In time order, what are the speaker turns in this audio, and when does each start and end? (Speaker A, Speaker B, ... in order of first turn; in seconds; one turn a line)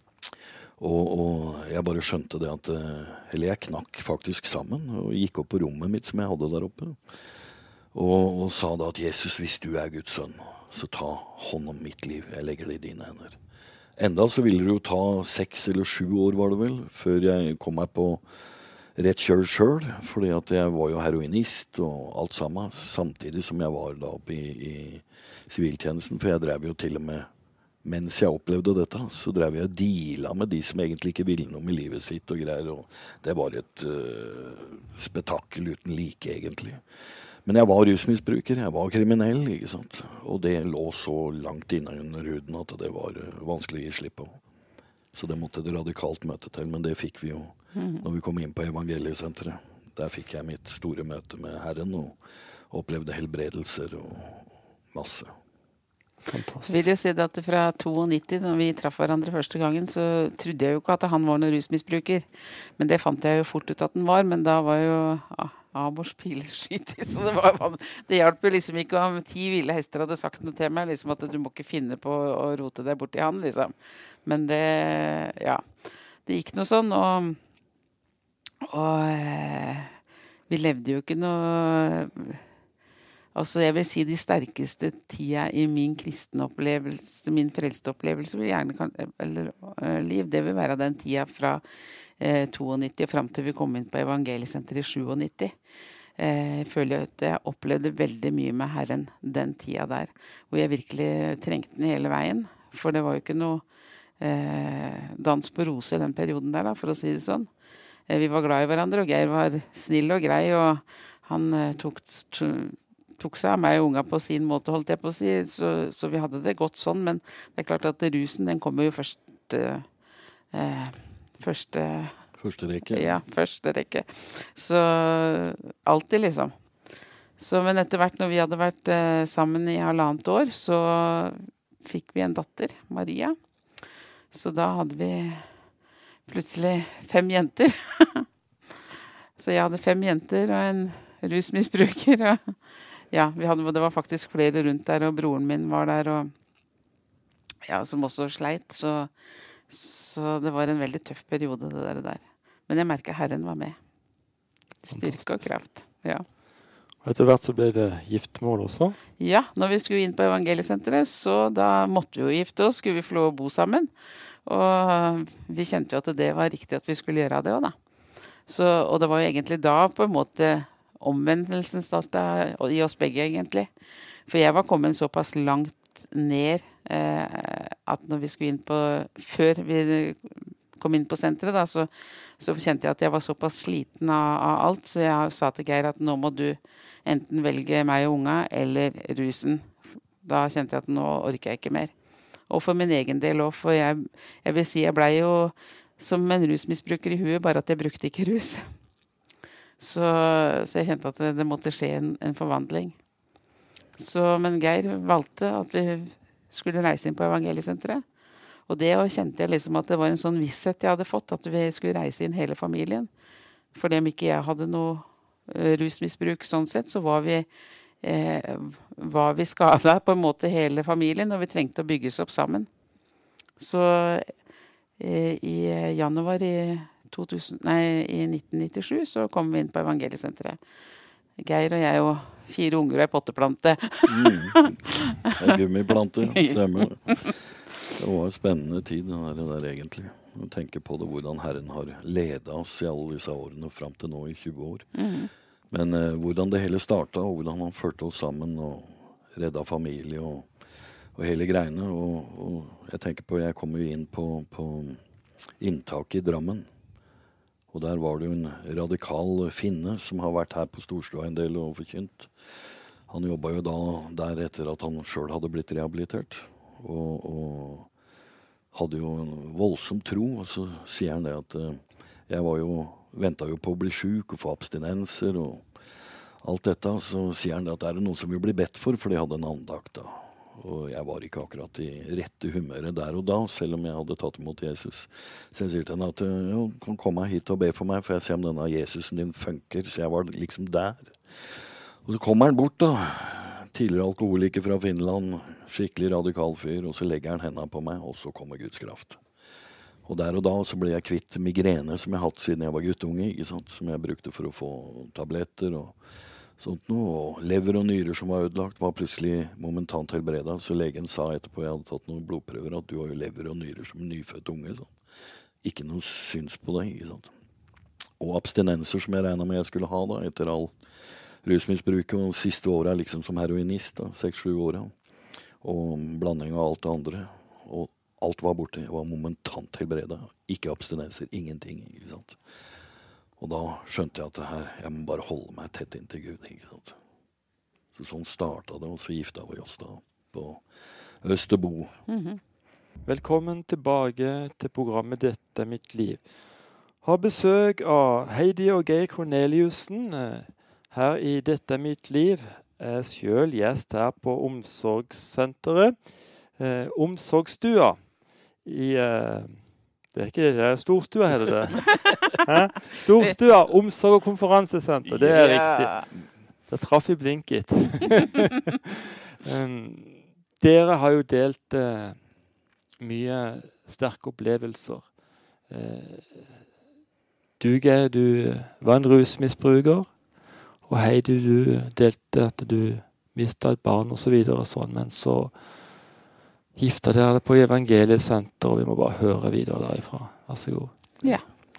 Speaker A: 0.8-7.0
Speaker A: 7.9-13.4
Speaker A: 14.0-18.2
Speaker A: 19.0-27.3
Speaker A: 27.8-36.8
Speaker A: 37.5-44.4
Speaker A: 45.1-52.2
Speaker B: 47.8-48.0
Speaker A: 52.7-55.3
Speaker C: 56.3-56.8
Speaker B: 56.7-62.3
Speaker B: 62.8-75.6
Speaker B: 76.3-77.4
Speaker B: 78.6-79.9
Speaker B: 80.5-82.4
Speaker B: 83.3-91.6
Speaker B: 92.2-95.5
Speaker B: 96.2-103.6
Speaker B: 104.2-107.5
Speaker B: 108.1-119.9
Speaker B: 120.5-122.2
Speaker A: 122.4-123.2
Speaker B: 122.9-126.5
Speaker B: 127.4-133.4
Speaker B: 134.3-135.5
Speaker B: 136.3-138.3
Speaker B: 139.4-142.6
Speaker B: 143.1-146.3
Speaker B: 147.7-149.1
Speaker B: 149.7-153.8
Speaker B: 154.8-156.3
Speaker C: 154.9-155.5
Speaker C: 157.0-159.0
Speaker B: 159.2-163.9
Speaker B: 164.5-167.7
Speaker B: 168.5-173.7
Speaker B: 174.3-191.9
Speaker B: 192.5-198.7
Speaker B: 199.8-202.9
Speaker B: 204.0-208.0
Speaker B: 208.7-213.1
Speaker B: 213.7-217.5
Speaker B: 218.0-222.7
Speaker B: 223.6-224.3
Speaker B: 225.0-230.6
Speaker B: 231.4-235.6
Speaker A: 234.1-244.9
Speaker B: 236.2-237.3
Speaker B: 244.9-245.3
Speaker A: 245.7-250.5
Speaker A: 251.2-255.0
Speaker A: 255.6-256.7
Speaker A: 257.7-262.3
Speaker A: 263.1-267.9
Speaker A: 268.7-275.6
Speaker A: 276.4-299.2
Speaker A: 300.1-306.0
Speaker A: 306.6-314.9
Speaker A: 315.6-317.3
Speaker A: 318.2-320.7
Speaker A: 321.4-324.9
Speaker A: 325.6-332.4
Speaker A: 333.4-337.0
Speaker A: 337.9-340.6
Speaker A: 341.2-341.9
Speaker B: 342.1-342.4
Speaker C: 343.1-368.5
Speaker A: 365.2-365.6
Speaker B: 365.3-366.1
Speaker C: 369.4-372.2
Speaker C: 373.0-375.1
Speaker C: 375.7-376.6
Speaker C: 377.6-380.2
Speaker C: 380.8-385.7
Speaker C: 386.8-391.3